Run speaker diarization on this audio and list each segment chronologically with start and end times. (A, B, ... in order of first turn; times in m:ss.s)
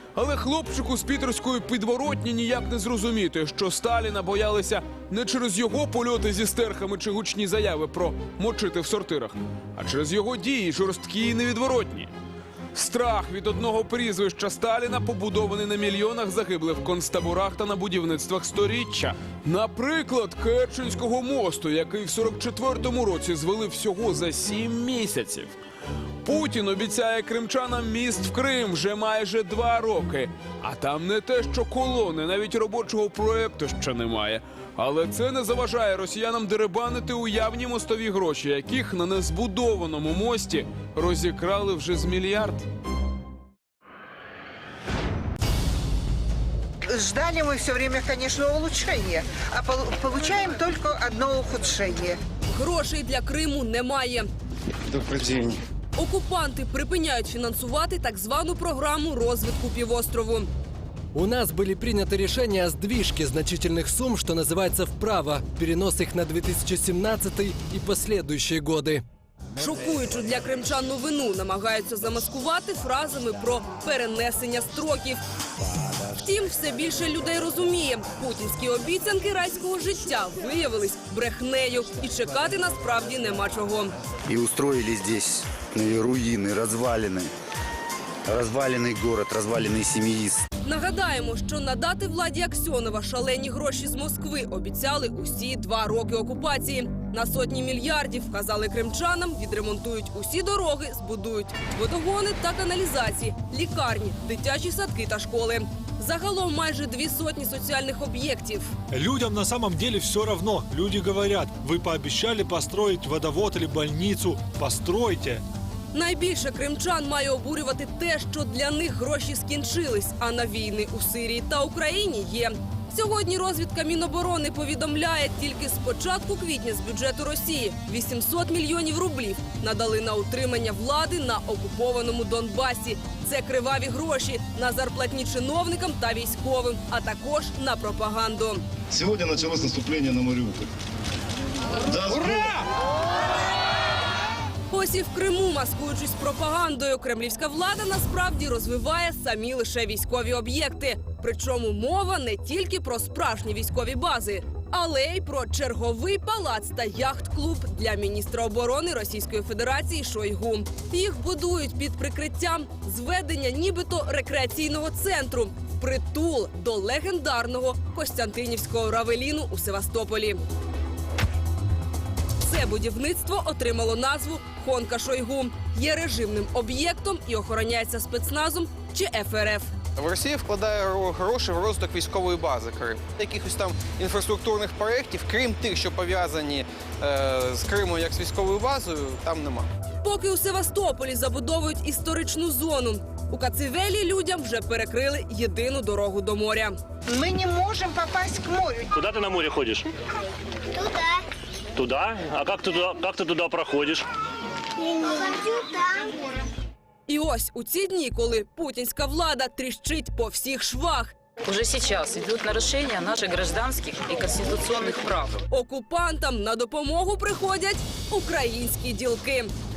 0:00.2-0:12.1 A
0:12.7-0:25.5 A
0:26.2-0:42.6 A
0:46.9-0:52.2 B
0:52.5-0:54.3 C
0:54.9-0:55.6 D
0:56.0-1:00.5 C
1:01.2-1:09.0 E
1:09.6-1:15.2 C
1:16.1-1:23.9 C
1:24.3-1:27.3 F
1:28.3-1:30.5 F
1:30.6-1:48.7 C
1:48.9-1:55.4 G
1:55.9-2:18.6 C
2:18.9-2:20.7 H
2:21.9-2:22.6 H
2:24.7-2:50.4 C
2:52.4-2:59.7 C
3:00.0-3:09.7 D
3:10.0-3:16.8 C
3:17.1-3:19.0 B
3:18.9-3:19.9 I
3:21.8-3:24.1 I
3:27.1-3:31.2 C
3:31.5-3:35.3 J
3:35.5-3:39.5 C